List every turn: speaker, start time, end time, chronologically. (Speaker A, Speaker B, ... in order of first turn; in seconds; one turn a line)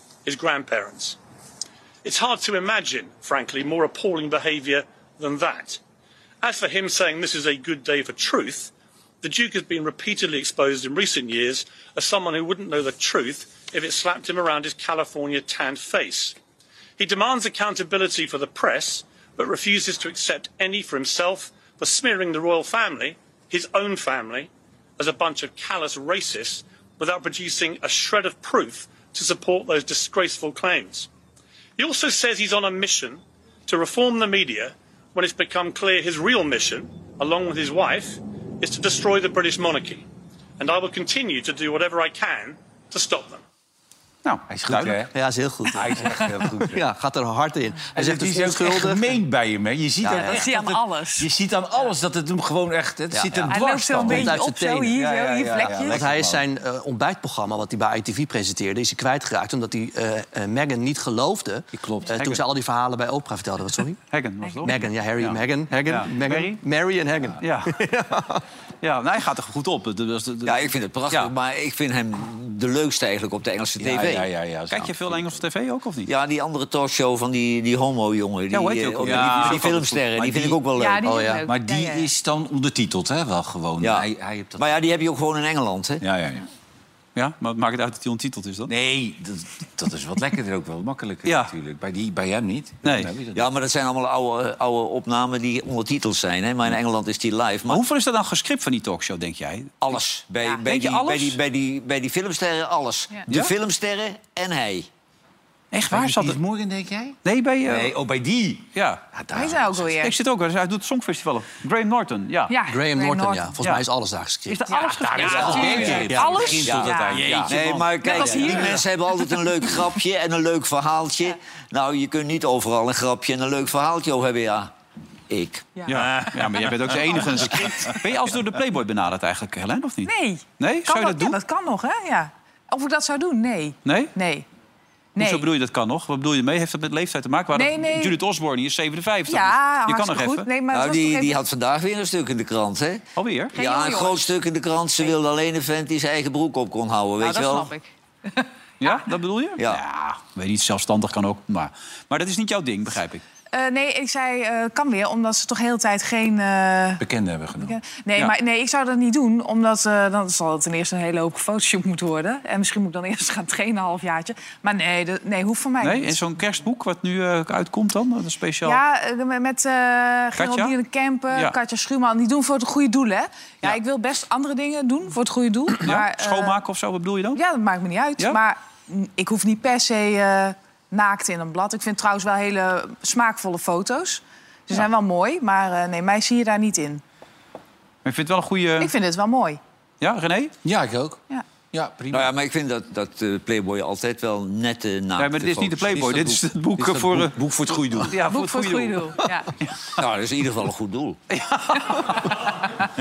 Speaker A: 0.2-1.2
Speaker A: 2.0-5.8
Speaker A: 6.4-16.4
Speaker A: 17.0-31.1
Speaker A: 31.8-40.0
Speaker A: 40.6-43.4
Speaker B: 44.2-45.0
Speaker C: 44.5-45.1
Speaker D: 45.1-49.1
Speaker C: 45.7-46.9
Speaker C: 47.9-56.4
Speaker D: 50.0-50.5
Speaker E: 50.2-51.3
Speaker D: 53.1-54.9
Speaker E: 53.5-56.0
Speaker D: 55.8-64.0
Speaker B: 61.8-62.4
Speaker B: 64.1-66.6
Speaker D: 64.6-68.4
Speaker B: 67.4-67.8
Speaker B: 68.8-70.6
Speaker F: 70.4-74.3
Speaker C: 73.8-75.4
Speaker B: 74.7-76.1
Speaker F: 76.0-81.0
Speaker B: 78.5-79.9
Speaker C: 79.0-80.6
Speaker E: 80.8-82.1
Speaker D: 81.0-81.4
Speaker C: 81.5-84.7
Speaker F: 83.8-86.0
Speaker C: 86.0-86.5
Speaker B: 87.2-88.7
Speaker C: 88.7-93.5
Speaker B: 91.2-91.5
Speaker B: 92.8-93.1
Speaker F: 93.3-97.8
Speaker B: 97.7-100.0
Speaker F: 99.8-104.9
Speaker B: 100.6-101.4
Speaker B: 105.7-106.4
Speaker C: 105.9-107.2
Speaker B: 107.2-107.9
Speaker C: 107.7-108.6
Speaker B: 108.7-109.0
Speaker C: 109.1-109.9
Speaker E: 109.3-110.2
Speaker B: 110.0-112.5
Speaker E: 112.5-113.5
Speaker D: 112.7-114.7
Speaker B: 114.5-116.2
Speaker E: 114.7-117.4
Speaker C: 115.0-118.5
Speaker D: 115.4-116.6
Speaker F: 116.6-124.7
Speaker B: 117.2-117.8
Speaker E: 118.0-118.8
Speaker F: 125.3-125.7
Speaker E: 125.8-126.1
Speaker B: 125.9-131.4
Speaker C: 125.9-127.9
Speaker E: 130.0-134.4
Speaker B: 133.8-134.1
Speaker E: 135.1-135.5
Speaker B: 135.2-140.5
Speaker E: 137.5-138.2
Speaker E: 139.3-141.4
Speaker F: 140.7-143.0
Speaker B: 143.2-143.6
Speaker E: 143.5-144.3
Speaker F: 143.5-147.7
Speaker E: 147.2-149.0
Speaker B: 148.8-153.2
Speaker E: 153.5-157.0
Speaker C: 157.0-157.8
Speaker E: 157.6-166.2
Speaker B: 165.8-168.8
Speaker E: 168.6-176.6
Speaker B: 170.3-170.7
Speaker B: 175.8-177.4
Speaker E: 177.3-187.0
Speaker B: 188.0-188.9
Speaker E: 188.8-189.6
Speaker B: 190.0-190.5
Speaker C: 190.6-191.2
Speaker C: 191.7-192.3
Speaker F: 192.1-196.4
Speaker B: 195.2-197.4
Speaker C: 196.8-198.2
Speaker B: 198.1-200.0
Speaker E: 198.3-199.5
Speaker F: 200.0-201.2
Speaker B: 201.3-202.3